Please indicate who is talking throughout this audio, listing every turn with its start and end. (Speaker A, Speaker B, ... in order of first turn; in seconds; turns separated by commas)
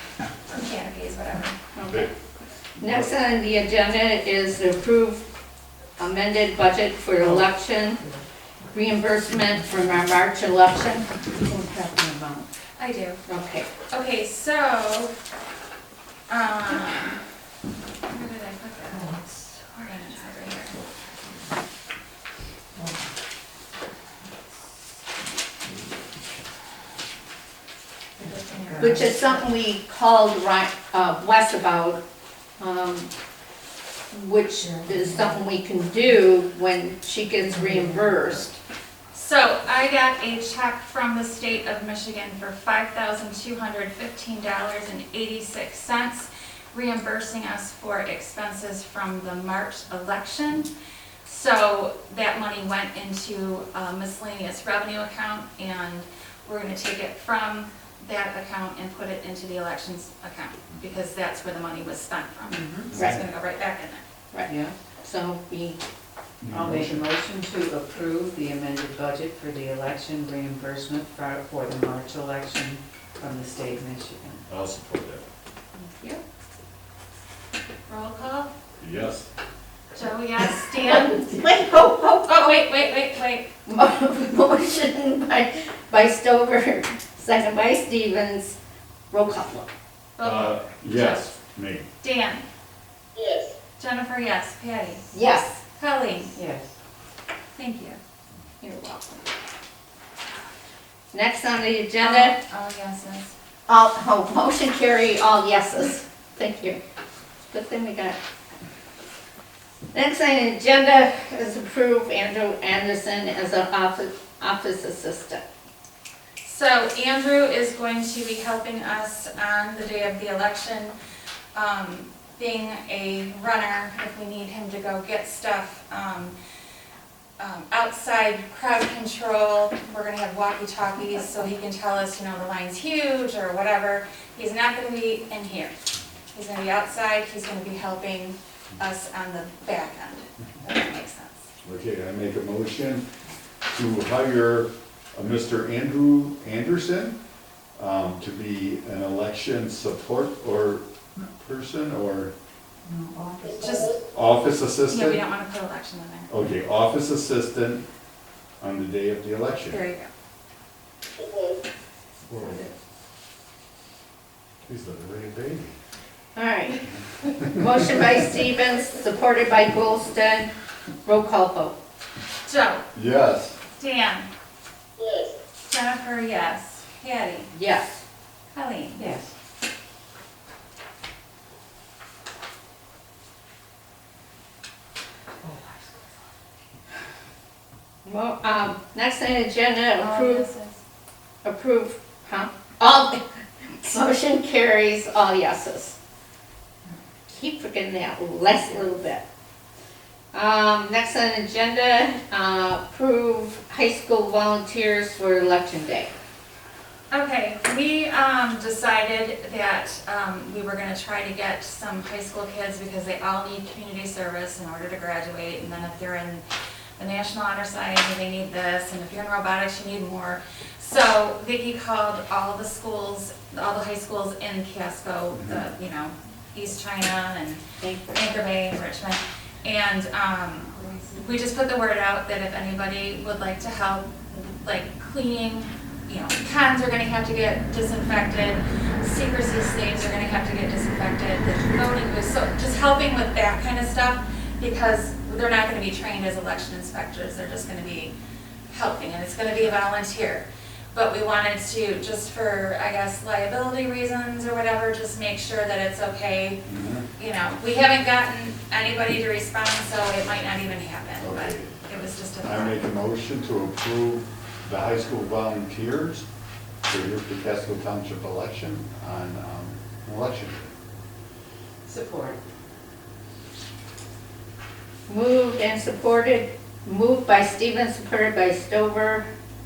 Speaker A: 0.5-1.6, Speaker B: 1.7-2.1, Speaker B: 2.8-5.2, Speaker C: 2.8-3.1, Speaker B: 6.0-8.0, Speaker B: 8.7-11.5, Speaker A: 12.8-13.2, Speaker B: 13.3-13.7, Speaker A: 13.9-15.1, Speaker A: 16.3-17.2, Speaker A: 18.1-19.2, Speaker A: 19.7-20.8, Speaker A: 28.2-29.1, Speaker D: 28.7-29.0, Speaker B: 28.8-32.0, Speaker B: 32.6-33.1, Speaker B: 34.1-38.5, Speaker A: 39.1-50.7, Speaker A: 51.2-64.0, Speaker D: 62.5-62.9, Speaker B: 64.3-65.8, Speaker D: 64.5-64.7, Speaker C: 66.4-67.1, Speaker D: 66.5-74.4, Speaker C: 74.5-75.2, Speaker A: 77.9-78.5, Speaker C: 78.8-79.3, Speaker A: 79.9-81.4, Speaker B: 80.7-82.4, Speaker A: 82.2-83.5, Speaker B: 83.7-88.5, Speaker B: 89.1-89.7, Speaker A: 90.2-91.3, Speaker C: 90.2-91.9, Speaker A: 92.0-92.5, Speaker A: 93.8-95.0, Speaker B: 95.1-95.6, Speaker A: 95.7-96.4, Speaker D: 96.3-96.7, Speaker A: 97.5-98.0, Speaker B: 98.6-99.2, Speaker B: 101.1-102.3, Speaker A: 102.0-103.3, Speaker B: 103.7-106.8, Speaker B: 107.5-108.2, Speaker B: 109.9-115.4, Speaker A: 116.4-120.9, Speaker A: 121.5-126.3, Speaker A: 127.4-135.7, Speaker A: 136.3-141.4, Speaker C: 141.6-143.0, Speaker C: 143.7-147.2, Speaker C: 147.8-152.3, Speaker D: 152.9-153.6, Speaker A: 153.5-154.0, Speaker C: 154.0-155.2, Speaker A: 154.9-156.3, Speaker C: 156.3-157.8, Speaker C: 158.6-159.8, Speaker A: 159.7-160.1, Speaker C: 162.3-162.7, Speaker C: 164.7-165.7, Speaker B: 166.3-166.8, Speaker B: 167.4-170.5, Speaker B: 171.0-171.7, Speaker A: 172.4-172.8, Speaker C: 172.9-173.6, Speaker A: 173.8-174.3, Speaker A: 175.7-177.5, Speaker B: 177.5-178.0, Speaker A: 178.5-179.1, Speaker D: 179.0-179.3, Speaker D: 185.4-185.8, Speaker B: 188.0-190.4, Speaker A: 190.0-190.8, Speaker B: 191.4-196.0, Speaker B: 197.3-199.2, Speaker B: 200.3-206.1, Speaker A: 207.1-216.4, Speaker A: 217.0-227.6, Speaker C: 225.3-225.6, Speaker B: 227.8-228.2, Speaker A: 228.1-248.1, Speaker A: 248.7-256.6, Speaker C: 256.6-257.1, Speaker A: 257.1-262.8, Speaker C: 261.2-261.7, Speaker C: 262.4-266.2, Speaker C: 266.9-270.7, Speaker D: 271.8-272.4, Speaker B: 275.1-279.2